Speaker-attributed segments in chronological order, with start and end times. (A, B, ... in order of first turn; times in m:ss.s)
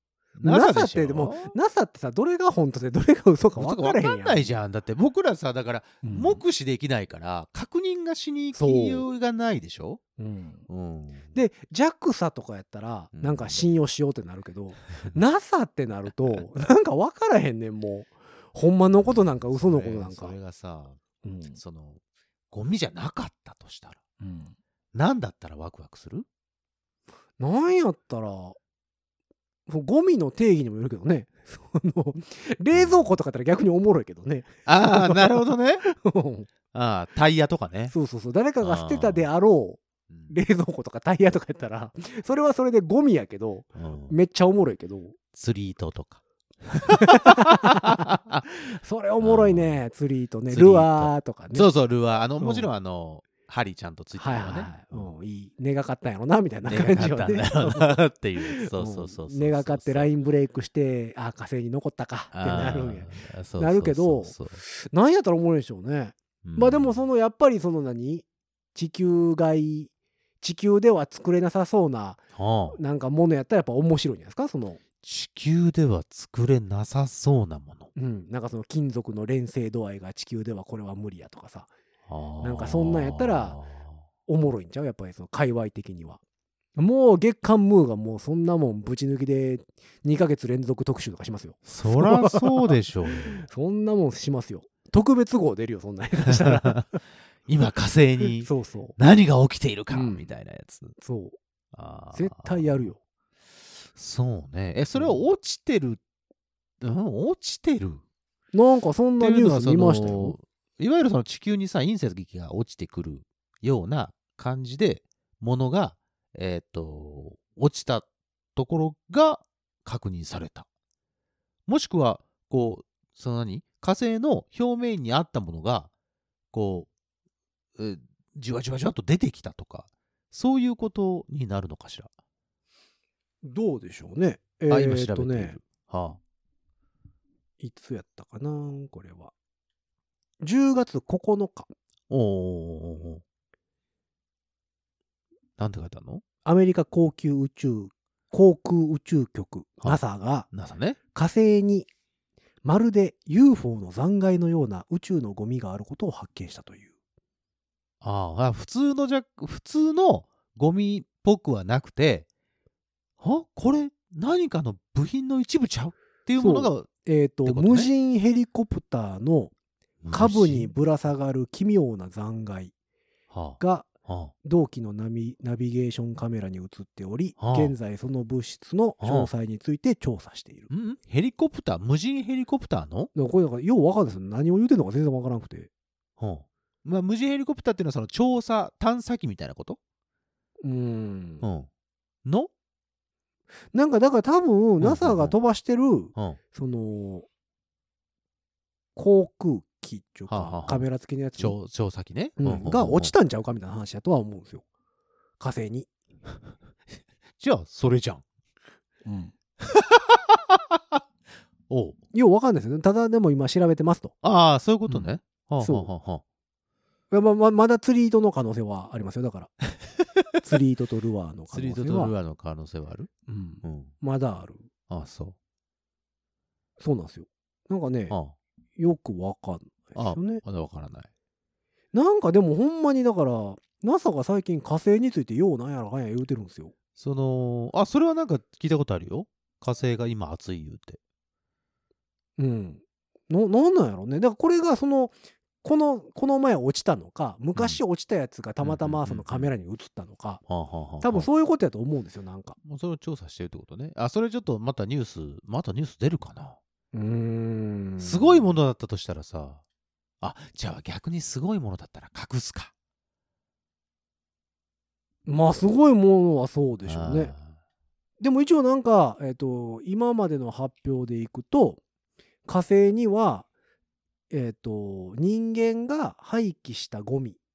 0:00.4-0:01.5 A
0:00.4-0:04.6 B
0:03.6-0:10.0 A
0:06.0-0:06.4 B
0:08.5-0:09.1 B
0:10.2-0:10.7 B
0:10.7-0:11.3 A
0:11.3-0:20.4 B
0:13.1-0:13.6 A
0:19.0-0:21.0 A
0:21.2-0:21.6 B
0:21.6-0:24.0 A
0:24.2-0:24.6 B
0:24.9-0:26.3 A
0:27.4-0:28.6 B
0:29.7-0:36.5 B
0:32.7-0:33.2 A
0:34.7-0:35.8 A
0:36.7-0:37.9 A
0:37.9-0:45.2 B
0:38.6-0:39.3 A
0:43.8-0:44.2 A
0:45.3-0:48.4 A
0:46.9-0:51.7 B
0:49.2-0:49.8 A
0:50.5-0:55.1 A
0:52.4-0:52.7 B
0:54.2-1:14.8 B
0:56.6-1:00.1 A
1:02.3-1:04.6 A
1:06.4-1:07.0 A
1:12.4-1:12.8 A
1:15.0-1:17.9 A
1:18.0-1:21.7 B
1:22.1-1:24.0 A
1:22.4-1:23.6 B
1:24.3-1:26.2 B
1:26.8-1:37.0 B
1:31.7-1:33.4 A
1:36.3-1:36.9 A
1:37.5-1:40.9 A
1:38.4-1:39.0 B
1:39.9-1:40.3 B
1:41.0-1:41.4 B
1:41.7-1:42.9 A
1:42.1-1:43.0 B
1:43.6-1:46.0 A
1:45.0-1:45.2 B
1:46.8-1:48.0 A
1:48.5-1:50.4 B
1:49.2-2:00.7 A
2:01.7-2:05.9 A
2:06.5-2:06.9 A
2:07.8-2:12.1 A
2:13.4-2:15.6 B
2:14.7-2:16.2 A
2:17.6-2:19.3 B
2:20.4-2:21.7 B
2:22.1-2:23.2 A
2:25.6-2:26.2 A
2:26.4-2:30.5 B
2:30.5-2:31.0 A
2:31.1-2:31.9 B
2:32.6-2:36.9 B
2:38.0-2:42.3 A
2:43.2-2:46.9 A
2:46.4-2:49.5 B
2:47.4-2:47.9 A
2:50.0-2:50.7 A
2:50.1-2:52.7 B
2:53.3-2:54.3 A
2:53.6-2:53.9 B
2:54.4-3:00.7 B
2:57.4-2:57.8 A
2:59.0-2:59.3 A
3:00.7-3:03.1 A
3:03.2-3:05.7 B
3:06.2-3:09.8 A
3:10.6-3:11.4 B
3:11.4-3:11.7 A
3:12.2-3:12.5 A
3:13.7-3:17.3 B
3:14.8-3:15.4 A
3:19.0-3:21.6 B
3:20.3-3:23.1 A
3:22.4-3:24.6 B
3:25.4-3:25.9 B
3:27.4-3:28.2 A
3:29.0-3:29.3 B
3:29.6-3:31.0 A
3:31.7-3:32.0 A
3:32.1-3:34.1 B
3:34.2-3:36.2 A
3:34.9-3:35.9 B
3:37.1-3:39.5 B
3:40.2-3:40.4 A
3:40.4-3:42.1 B
3:41.5-3:43.1 A
3:43.3-3:44.7 B
3:43.6-3:43.9 A
3:44.9-3:45.4 A
3:46.8-3:48.2 B
3:48.1-3:48.4 A
3:48.8-3:50.4 B
3:50.0-3:51.1 A
3:51.9-3:56.7 B
3:57.0-4:01.0 A
4:02.4-4:10.4 B
4:08.6-4:09.5 A
4:10.5-4:11.3 A
4:11.0-4:12.6 B
4:12.6-4:16.6 A
4:16.9-4:18.5 B
4:18.0-4:19.6 A
4:20.2-4:22.7 A
4:25.3-4:27.3 B
4:26.9-4:27.5 A
4:28.2-4:31.8 B
4:32.5-4:33.5 B
4:34.3-4:37.4 B